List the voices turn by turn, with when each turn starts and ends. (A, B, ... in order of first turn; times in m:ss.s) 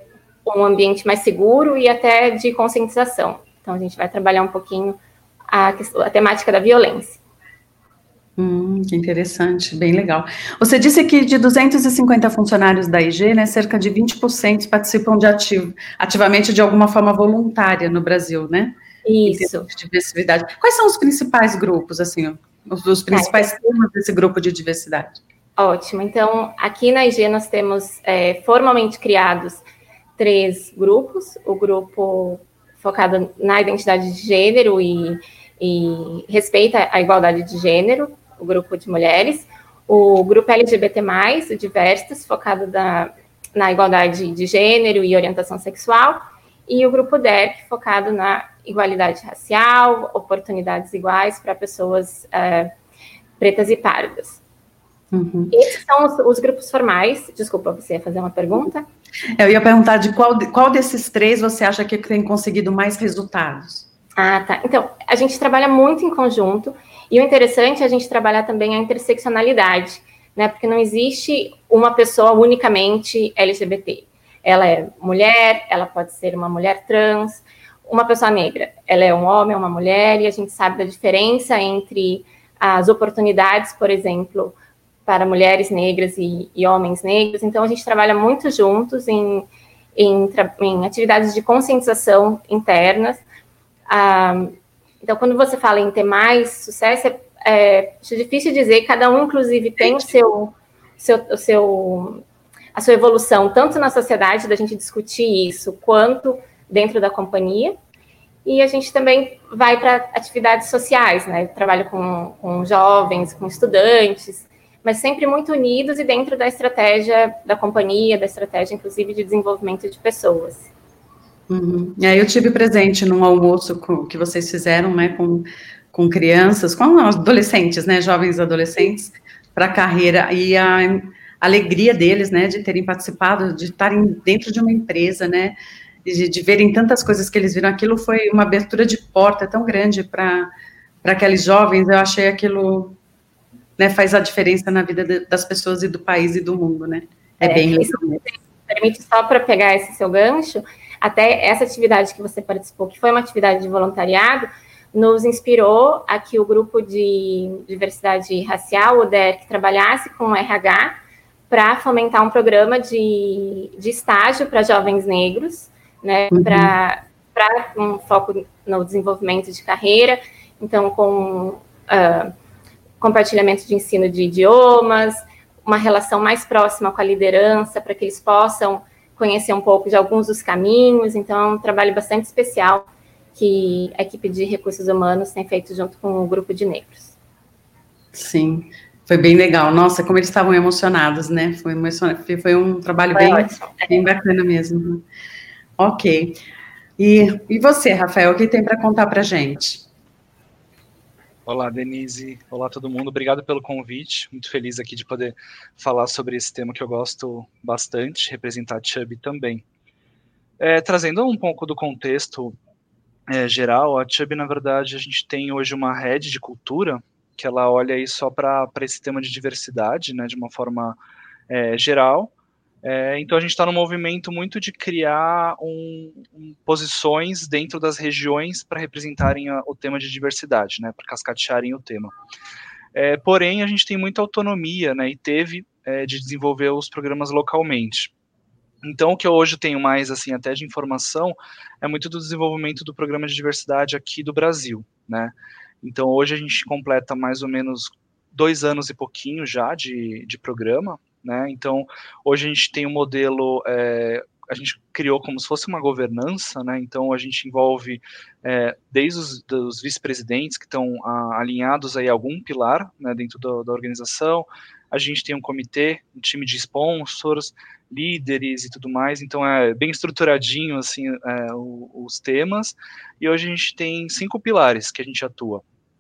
0:00.4-0:05.0 A
0:05.5-0:07.2 A
0:08.4-0:25.2 B
0:19.0-0:19.7 A
0:23.1-0:23.5 A
0:25.6-0:29.6 A
0:30.2-0:52.7 A
0:53.4-0:54.4 A
0:55.1-0:55.5 B
0:55.5-0:58.9 A
0:59.4-1:03.9 B
1:04.2-1:24.6 A
1:25.1-1:33.2 A
1:33.9-1:42.2 A
1:42.8-1:47.8 A
1:48.4-2:00.7 A
2:01.5-2:20.5 B
2:21.0-2:23.0 B
2:23.8-2:28.2 B
2:27.4-2:41.0 A
2:41.5-2:52.3 A
2:46.3-2:46.7 B
2:53.0-3:07.2 A
3:08.1-3:15.0 B
3:13.1-3:13.9 A
3:15.8-3:16.4 B
3:17.0-3:19.8 B
3:21.5-3:29.6 C
3:30.6-3:32.6 C
3:33.3-3:41.0 C
3:41.5-3:42.3 C
3:42.8-3:52.1 C
3:52.9-3:58.1 C
3:58.8-4:35.6 C